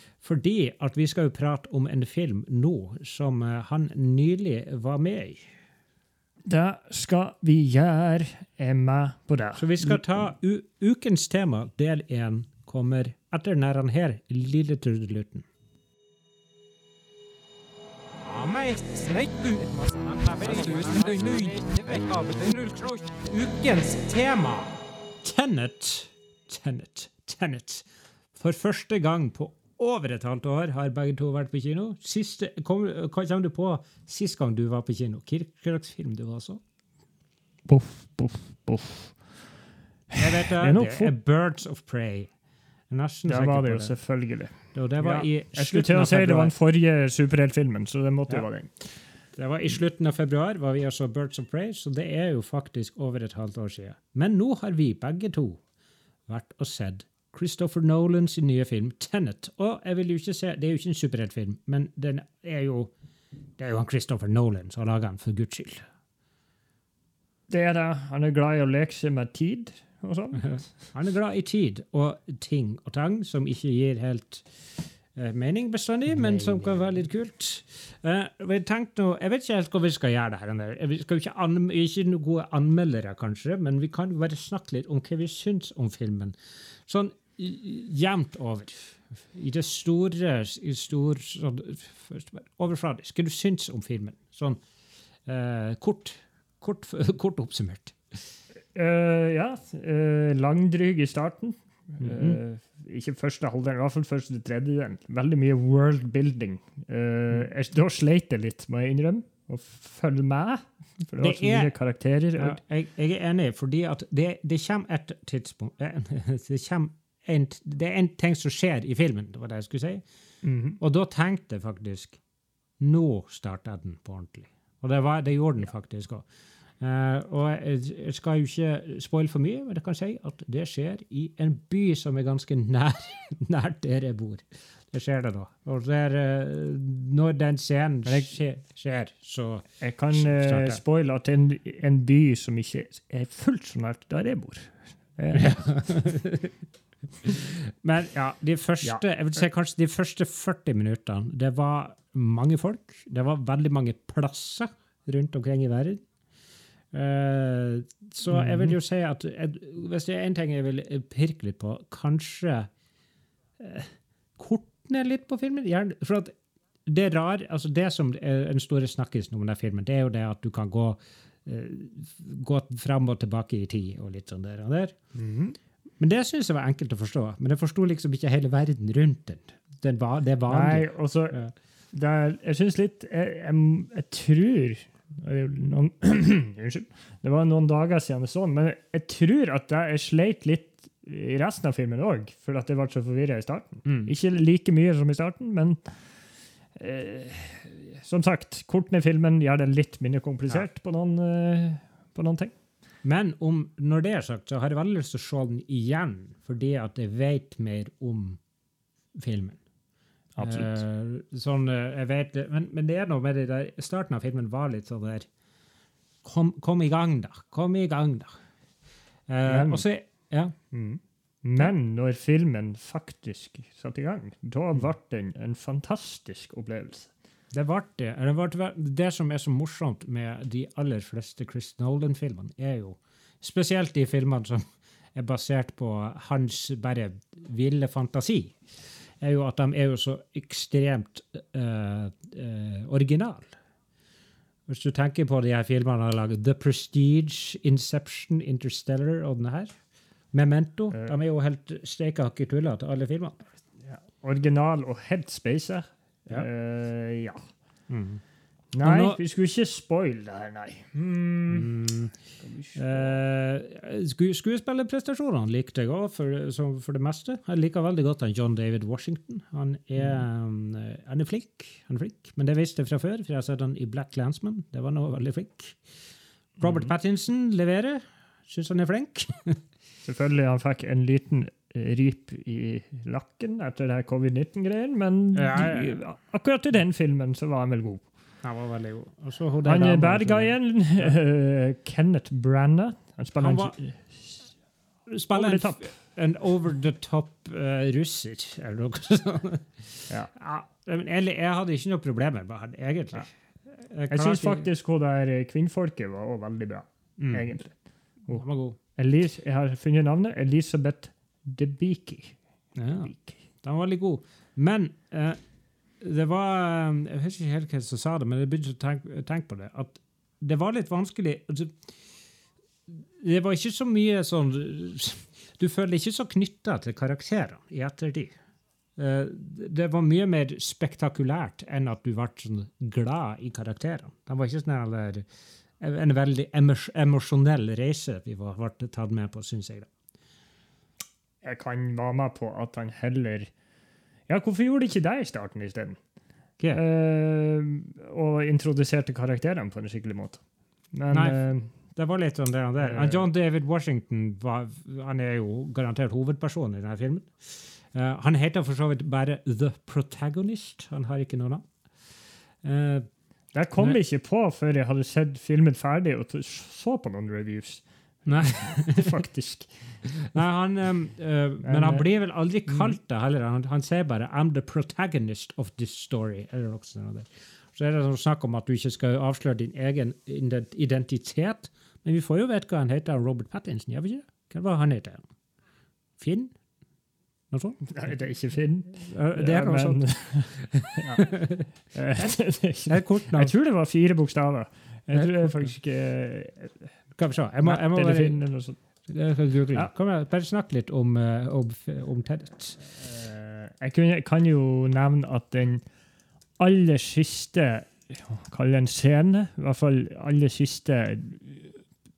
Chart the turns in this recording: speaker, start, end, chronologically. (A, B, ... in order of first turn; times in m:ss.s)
0:00.2-0:05.5 A
0:06.4-0:10.0 B
0:09.6-0:15.5 A
0:18.2-0:36.6 A
0:37.7-0:39.2 B
0:40.1-0:41.1 B
0:40.2-0:42.3 A
0:42.9-0:43.9 A
0:43.3-0:48.7 B
0:44.7-0:46.5 A
0:49.4-0:55.6 A
0:56.3-1:02.9 A
1:03.6-1:05.8 A
1:07.5-1:10.6 B
1:10.4-1:34.6 A
1:35.3-1:38.0 A
1:38.7-1:52.6 B
1:42.0-1:42.4 A
1:51.2-1:51.7 A
1:52.4-2:00.0 A
2:00.4-2:00.8 B
2:00.8-2:02.2 A
2:02.8-2:06.2 A
2:06.8-2:20.8 A
2:18.1-2:18.3 B
2:19.8-2:25.8 B
2:25.3-2:26.5 A
2:27.2-2:36.0 A
2:36.9-2:42.7 A
2:38.3-2:38.8 B
2:43.6-2:46.3 A
2:46.9-2:55.0 A
2:55.1-2:55.6 B
2:56.0-3:01.5 A
3:00.5-3:01.4 B
3:01.9-3:15.9 B
3:13.8-3:14.1 A
3:16.8-3:22.6 B
3:23.0-3:28.4 A
3:29.2-3:29.6 A
3:30.4-3:30.8 B
3:30.4-3:35.3 A
3:36.2-3:38.4 A
3:39.3-3:40.6 A
3:39.5-3:39.8 B
3:40.7-3:47.1 B
3:47.5-3:58.6 A
3:59.2-4:03.6 A
4:04.7-4:09.8 A
4:10.3-4:13.5 A
4:13.8-4:17.4 B
4:17.9-4:18.2 A
4:18.7-4:21.8 B
4:18.8-4:19.2 A
4:21.5-4:22.1 A
4:22.4-4:23.2 B
4:22.8-4:35.8 A
4:36.6-4:36.9 B
4:36.6-4:39.6 A
4:40.0-4:48.0 B
4:45.4-4:46.0 A
4:48.4-4:51.1 A
4:49.6-4:54.4 B
4:53.4-4:53.8 A
4:55.1-5:04.7 A
4:55.3-4:55.9 B
5:04.1-5:07.8 B
5:07.2-5:07.5 A
5:08.3-5:08.8 A
5:09.0-5:12.4 B
5:12.8-5:15.4 A
5:16.0-5:21.8 A
5:22.9-5:28.4 A
5:29.0-5:35.3 A
5:35.8-5:39.9 A
5:41.4-5:43.5 B
5:44.3-5:46.0 B
5:46.7-5:50.4 B
5:50.9-5:51.7 B
5:51.1-5:51.4 A
5:52.0-6:01.7 A
5:52.8-5:53.2 B
6:02.6-6:03.1 A
6:03.5-6:09.7 B
6:08.3-6:09.1 A
6:10.1-6:25.3 A
6:11.6-6:12.1 B
6:26.2-6:26.6 A
6:27.5-6:27.8 A
6:27.9-6:31.3 B
6:29.0-6:31.7 A
6:31.9-6:36.9 B
6:32.9-6:33.5 A
6:35.1-6:35.6 A
6:37.2-6:38.4 A
6:37.6-6:38.8 B
6:39.1-6:42.9 A
6:43.0-6:45.8 B
6:46.6-6:51.8 B